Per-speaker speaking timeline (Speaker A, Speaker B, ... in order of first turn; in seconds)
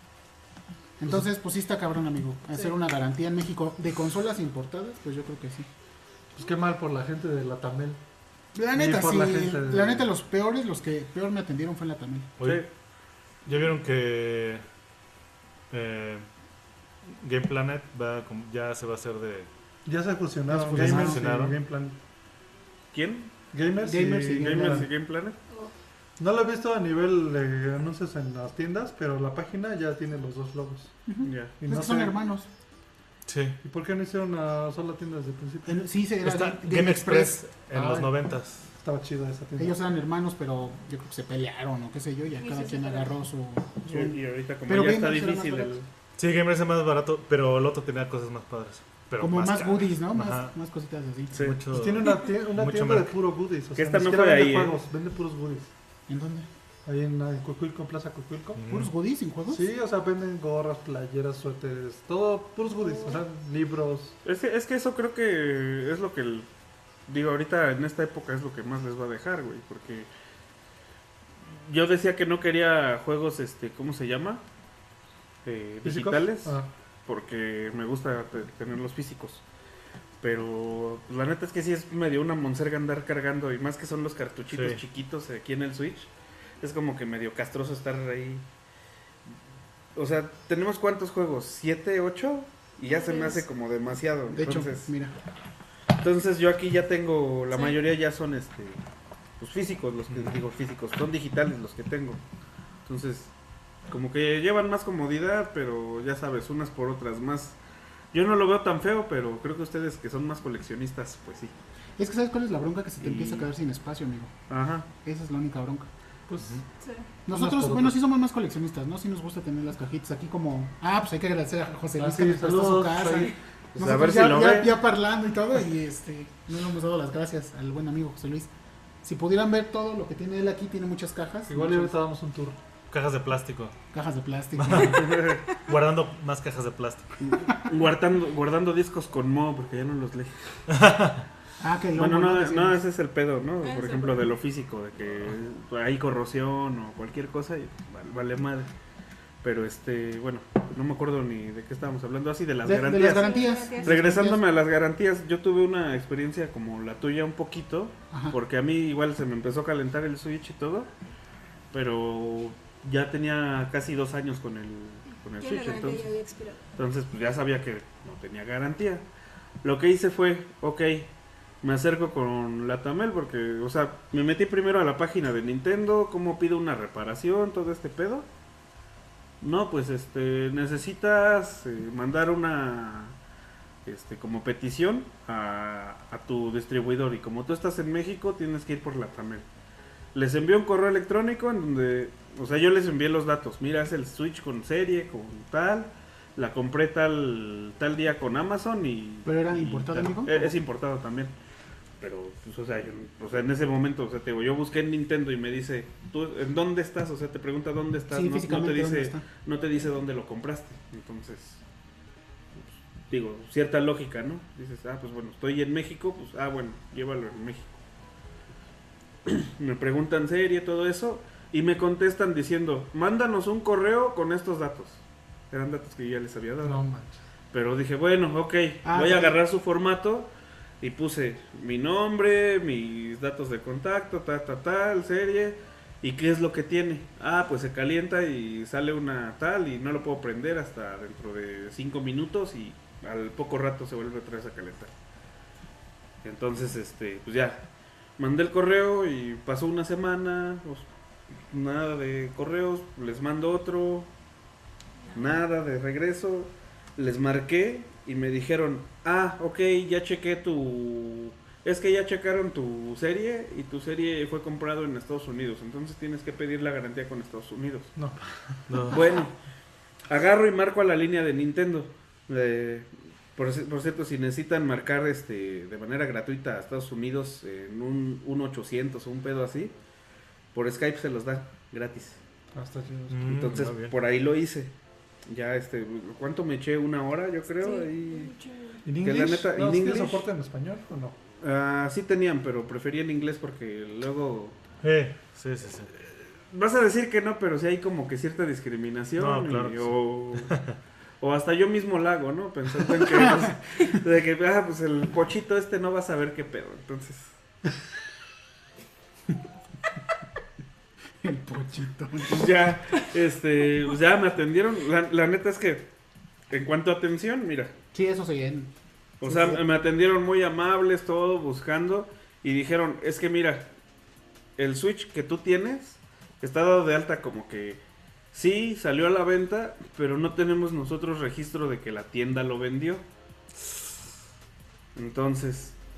Speaker A: 1.0-5.7, 8.5-12.3, 20.5-21.2, 23.8-24.9, 31.1-32.5, 35.6-37.4, 39.6-44.1, 44.7-45.7, 49.2-51.3, 56.1-56.5, 58.7-59.7, 94.3-95.1, 112.0-114.3, 115.0-115.9, 117.2-128.5, 129.0-131.9, 133.9-135.2, 141.6-142.8, 152.6-154.4, 158.1-158.4, 199.2-200.6, 208.1-209.2, 228.8-229.3, 303.1-303.5, 311.2-312.8, 317.9-319.6
Speaker B: 6.3-8.0, 8.7-10.1, 19.9-22.0, 23.5-24.9, 26.2-31.0, 31.6-32.2, 33.6-35.8, 37.7-38.1, 38.8-39.8, 51.7-55.7, 56.9-58.6, 59.5-64.2, 75.8-76.7, 116.3-116.6, 117.3-118.0, 122.0-123.3, 131.5-132.6, 226.6-227.2, 267.9-268.8, 282.5-283.6, 288.8-291.1
Speaker C: 12.4-12.7, 13.4-14.6, 15.7-16.3, 17.1-19.5, 20.6-21.6, 33.2-33.6, 36.2-38.6, 46.2-50.5, 51.3-53.1, 58.6-58.9, 84.5-84.8, 100.1-100.3, 132.9-133.7, 134.5-135.1, 135.6-137.1, 140.7-141.2, 268.7-269.0, 283.1-283.9, 294.8-295.9, 299.2-300.8
Speaker D: 12.4-12.7, 22.9-23.3, 24.3-25.4, 31.2-31.5, 43.8-45.9, 51.3-51.6, 53.8-54.8, 64.2-66.5, 67.1-70.1, 71.5-74.4, 75.4-79.4, 80.2-86.1, 86.6-88.4, 89.9-94.9, 96.0-98.8, 99.4-102.2, 102.8-103.3, 103.9-107.6, 108.1-111.5, 113.0-113.5, 114.5-114.9, 123.8-124.7, 134.9-135.4, 137.2-140.6, 141.9-148.7, 149.4-160.9, 161.7-166.1, 166.8-169.0, 169.6-171.1, 171.6-178.2, 179.4-183.2, 183.8-189.4, 190.1-201.3, 202.0-211.6, 212.5-217.8, 219.2-226.8, 227.5-230.3, 230.8-244.9, 246.2-247.6, 248.2-250.9, 251.5-254.1, 255.1-267.9, 268.9-269.3, 270.1-279.7, 280.5-282.2, 283.2-284.7, 285.3-288.3, 289.0-290.2, 291.4-294.6, 296.0-300.6, 301.2-307.3, 312.3-315.9, 316.5-317.7, 319.2-323.7, 324.6-327.8, 328.3-333.0, 334.9-335.8
Speaker E: 42.4-43.1, 92.9-93.4, 97.5-97.8, 116.8-117.0, 143.6-144.2, 153.0-154.1, 165.4-166.6, 287.6-288.8